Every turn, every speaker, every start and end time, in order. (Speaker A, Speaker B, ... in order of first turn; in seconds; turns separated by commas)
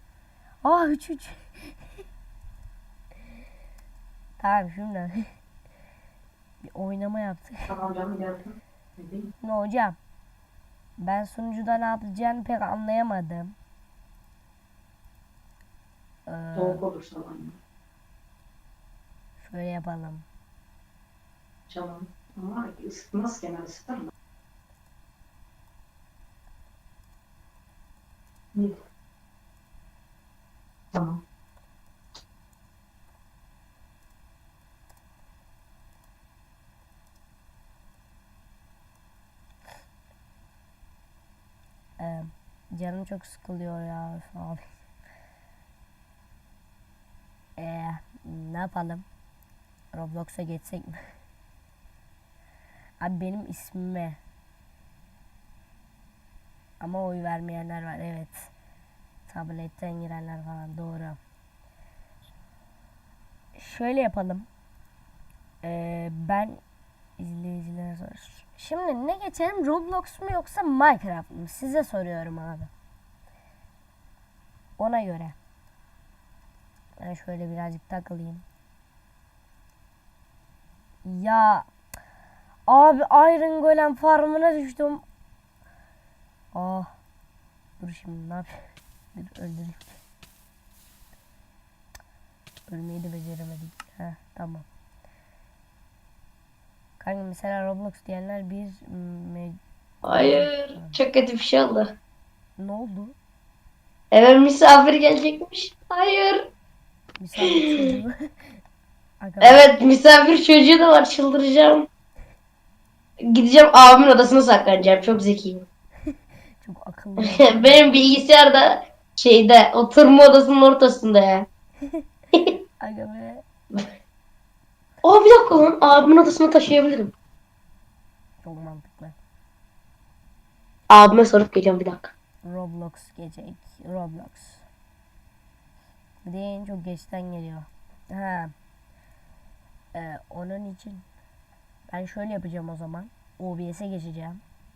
Speaker A: 0.6-1.8, Speaker A: 4.4-5.3, Speaker A: 6.6-7.7, Speaker B: 7.7-9.3, Speaker A: 9.4-10.0, Speaker A: 11.0-13.5, Speaker A: 16.3-16.8, Speaker B: 16.6-17.6, Speaker A: 19.4-20.2, Speaker B: 21.7-24.1, Speaker B: 30.9-31.2, Speaker A: 42.0-44.8, Speaker A: 47.6-49.0, Speaker A: 49.9-51.1, Speaker A: 53.0-54.2, Speaker A: 56.8-58.5, Speaker A: 59.3-61.2, Speaker A: 63.5-64.5, Speaker A: 65.6-66.6, Speaker A: 67.2-72.7, Speaker A: 74.8-75.3, Speaker A: 77.0-78.4, Speaker A: 81.0-81.7, Speaker A: 82.7-85.0, Speaker A: 86.5-86.9, Speaker A: 87.8-90.0, Speaker A: 92.7-94.7, Speaker A: 97.0-101.0, Speaker C: 100.0-101.9, Speaker A: 102.6-103.2, Speaker C: 104.1-106.5, Speaker A: 107.2-108.5, Speaker C: 107.4-107.9, Speaker A: 109.2-109.7, Speaker C: 109.4-111.9, Speaker C: 113.2-115.6, Speaker A: 116.6-117.8, Speaker C: 117.2-121.5, Speaker A: 122.8-123.4, Speaker C: 125.0-127.1, Speaker A: 128.4-129.2, Speaker C: 130.9-132.1, Speaker A: 132.4-134.6, Speaker A: 136.2-138.5, Speaker A: 139.9-141.0, Speaker A: 141.9-144.4